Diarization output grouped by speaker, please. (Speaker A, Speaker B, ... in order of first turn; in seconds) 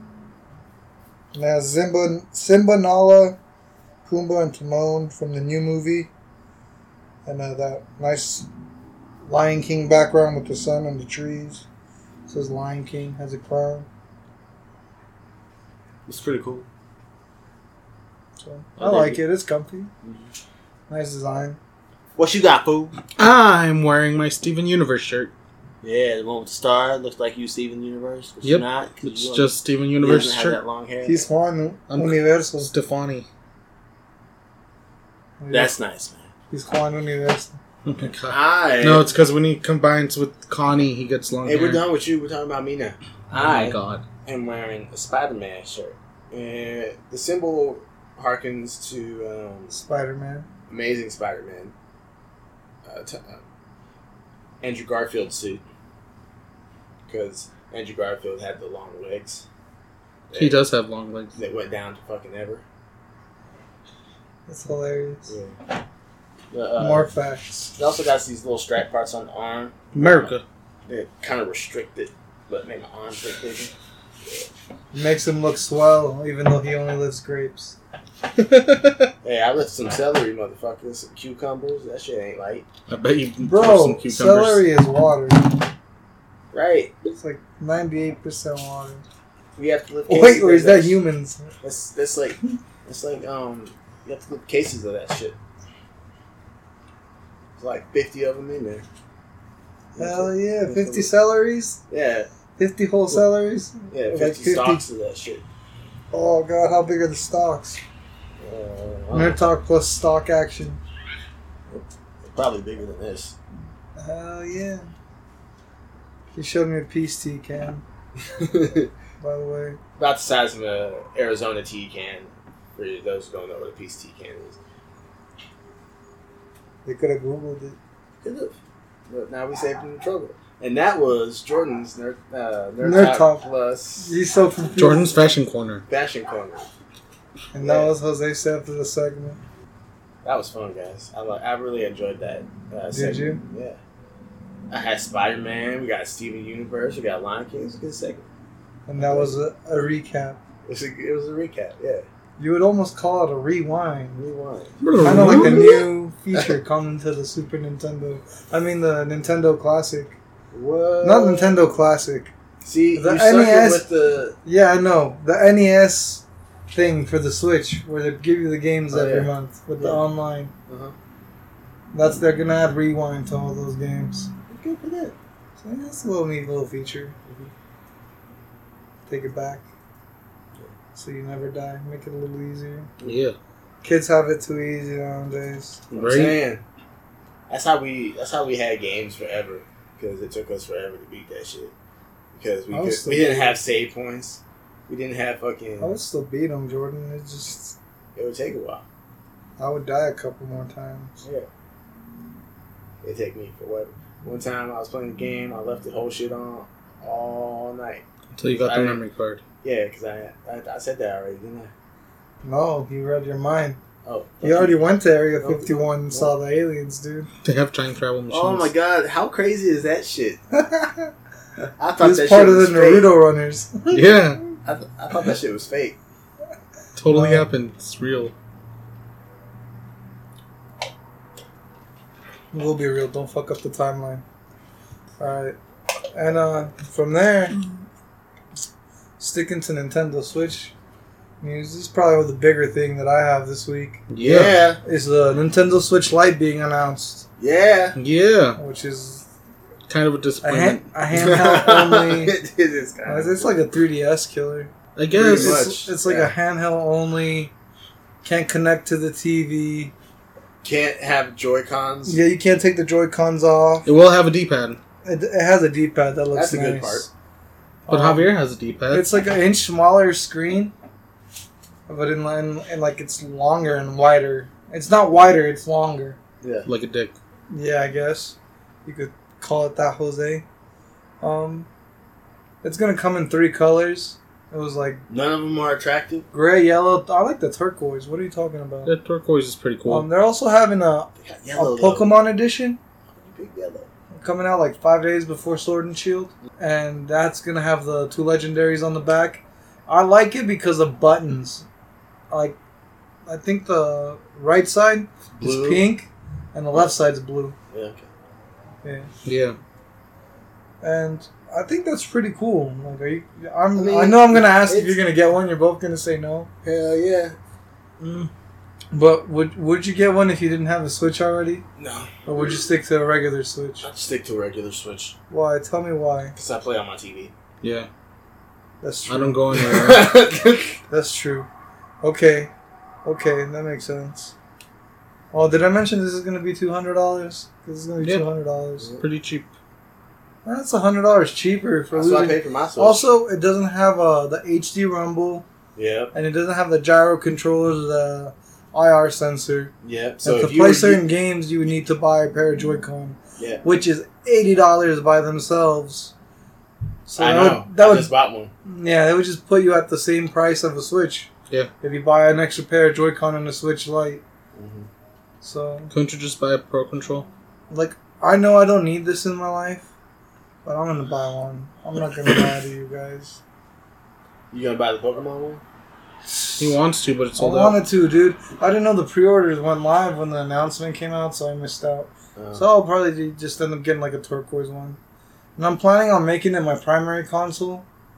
Speaker A: 1.3-3.4, 4.0-6.1, 7.2-8.5, 9.2-11.6, 12.3-13.9, 18.4-19.9, 20.9-21.6, 31.0-32.7, 35.4-35.8, 36.5-37.5, 49.7-50.5, 64.5-65.3, 66.8-67.7, 74.9-77.8, 83.4-85.5, 87.1-89.0, 90.1-91.5, 100.0-101.8, 102.6-104.8, 106.1-107.8, 109.1-110.8, 114.0-114.8, 116.3-117.8, 119.2-119.8, 126.8-127.8, 132.8-133.4, 134.0-135.2, 137.5-139.4, 142.9-143.4, 148.9-150.4, 152.4-154.2, 155.0-160.2, 161.0-162.3, 162.9-163.8, 164.4-170.5, 171.9-174.3, 175.6-177.2, 179.1-179.7, 180.9-182.9, 183.8-185.9, 192.7-193.6, 195.8-197.8, 199.6-201.2, 212.4-213.8, 214.4-217.3, 220.5-221.1, 222.0-224.2, 227.1-227.5, 232.5-234.2, 235.2-235.6, 236.1-237.8, 239.2-240.7, 241.4-244.1, 244.8-247.2, 248.6-249.3, 250.4-252.3, 253.1-257.5, 258.2-259.9, 262.1-263.9, 265.0-267.1, 267.9-268.3, 268.9-270.7, 271.9-276.2, 277.5-280.4, 281.2-281.7, 282.6-285.0, 286.3-288.9, 289.9-292.8, 294.1-301.6, 302.3-302.6, 303.3-307.6, 308.8-309.1, 310.8-316.5, 318.9-321.6, 322.2-323.9, 325.3-326.3, 328.8-329.7, 330.9-331.5, 332.0-332.5, 333.0-334.3, 335.3-339.0, 340.4-345.4, 346.1-349.7, 350.2-356.1, 357.1-358.1, 358.6-361.3, 361.8-364.2, 365.4-365.9, 367.7-369.9, 370.6-373.4, 376.2-376.8, 377.4-385.0, 385.6-387.9
Speaker B: 16.1-16.6, 18.8-19.2, 20.0-20.3, 22.1-23.0, 25.8-31.2, 35.5-36.3, 38.2-39.1, 41.4-49.8, 50.7-51.7, 52.8-53.4, 54.6-55.6, 57.1-59.5, 60.3-60.6, 61.4-62.6, 65.3-65.5, 66.5-67.1, 67.8-70.3, 70.8-74.5, 79.2-82.7, 86.5-86.9, 89.5-91.0, 91.6-95.4, 97.6-98.8, 99.9-101.1, 101.9-102.3, 103.9-105.4, 108.4-109.4, 111.7-113.3, 118.2-118.9, 120.0-124.6, 128.2-128.6, 129.1-134.2, 135.9-136.7, 137.6-137.9, 140.2-143.8, 144.7-148.2, 149.0-149.3, 150.7-152.1, 154.2-155.8, 160.5-161.7, 162.6-164.4, 168.9-170.0, 170.7-170.9, 174.5-175.1, 185.9-186.6, 187.5-191.7, 192.3-195.9, 198.2-198.8, 201.2-201.5, 203.0-209.0, 209.6-211.7, 214.0-214.8, 215.4-216.3, 218.3-220.4, 221.8-223.1, 224.6-226.0, 244.2-244.8, 247.4-248.0, 251.1-253.5, 255.1-256.3, 260.6-262.2, 266.3-267.1, 276.4-276.7, 285.1-286.3, 291.2-292.2, 293.1-293.9, 305.4-305.9, 307.7-308.1, 313.7-315.0, 316.6-317.4, 321.8-322.6, 323.8-325.1, 326.4-327.3, 329.5-330.8, 341.9-343.1, 345.8-346.1, 349.8-351.0, 353.4-353.6, 357.2-358.5, 364.5-364.9, 374.5-375.6, 382.4-382.6
Speaker C: 23.2-25.3, 28.4-30.6, 31.9-33.3, 37.8-41.8, 43.3-44.0, 60.3-61.4, 69.9-70.4, 78.3-79.1, 82.9-84.6, 134.8-135.8, 154.8-155.8, 183.0-183.3, 185.9-186.4, 208.3-209.4, 217.4-218.7, 223.9-224.4, 226.9-228.3, 244.1-244.6, 248.0-248.6, 249.9-250.9, 254.9-255.7, 263.8-264.8, 267.9-269.1, 276.6-277.1, 288.8-290.1, 309.2-309.6, 318.0-318.3, 327.6-327.9, 329.1-330.1, 339.0-339.5, 365.9-367.3, 376.6-377.8